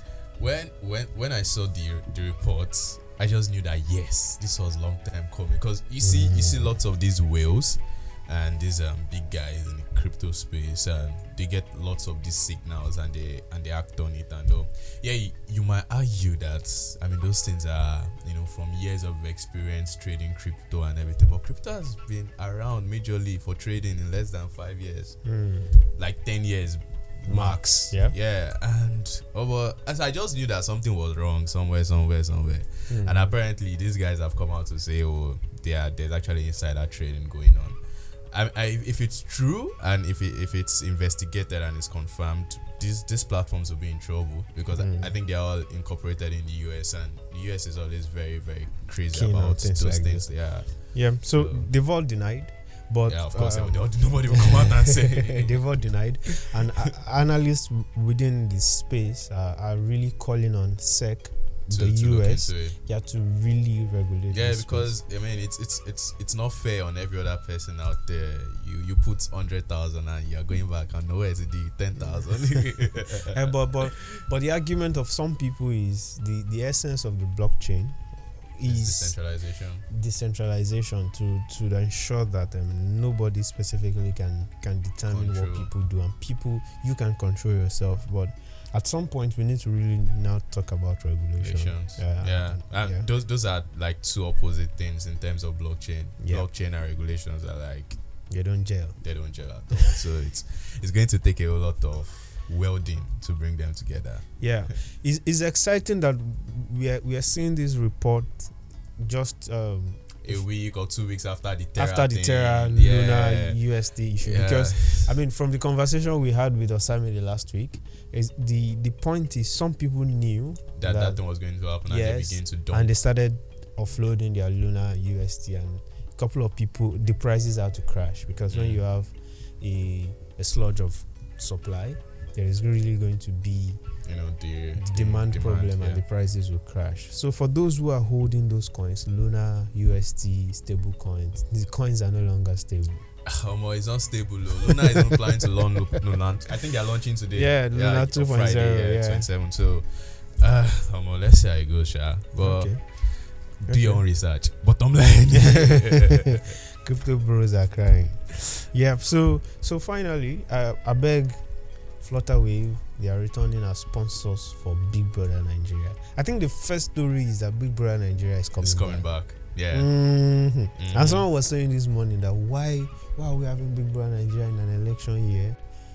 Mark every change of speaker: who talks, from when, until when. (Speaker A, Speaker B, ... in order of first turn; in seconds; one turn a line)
Speaker A: 0.3-51.7
Speaker B: 6.0-6.7
Speaker B: 25.2-25.8
Speaker B: 27.3-28.1
Speaker B: 32.9-33.3
Speaker B: 44.8-45.1
Speaker B: 49.1-65.0
Speaker A: 53.0-56.5
Speaker A: 61.7-62.8
Speaker A: 64.3-73.9
Speaker B: 72.0-79.3
Speaker A: 78.6-79.8
Speaker B: 79.9-93.1
Speaker A: 85.1-85.7
Speaker A: 91.4-98.5
Speaker B: 96.2-96.5
Speaker B: 98.3-99.2
Speaker A: 99.0-104.8
Speaker B: 99.7-100.0
Speaker B: 104.4-110.4
Speaker A: 110.2-115.1
Speaker B: 111.8-121.2
Speaker A: 120.8-123.0
Speaker B: 121.8-133.8
Speaker A: 128.5-128.8
Speaker A: 134.0-136.0
Speaker B: 134.8-143.1
Speaker A: 143.2-156.5
Speaker B: 144.7-145.2
Speaker B: 147.3-149.3
Speaker B: 152.4-154.0
Speaker B: 155.3-169.1
Speaker A: 168.6-171.2
Speaker B: 169.7-175.6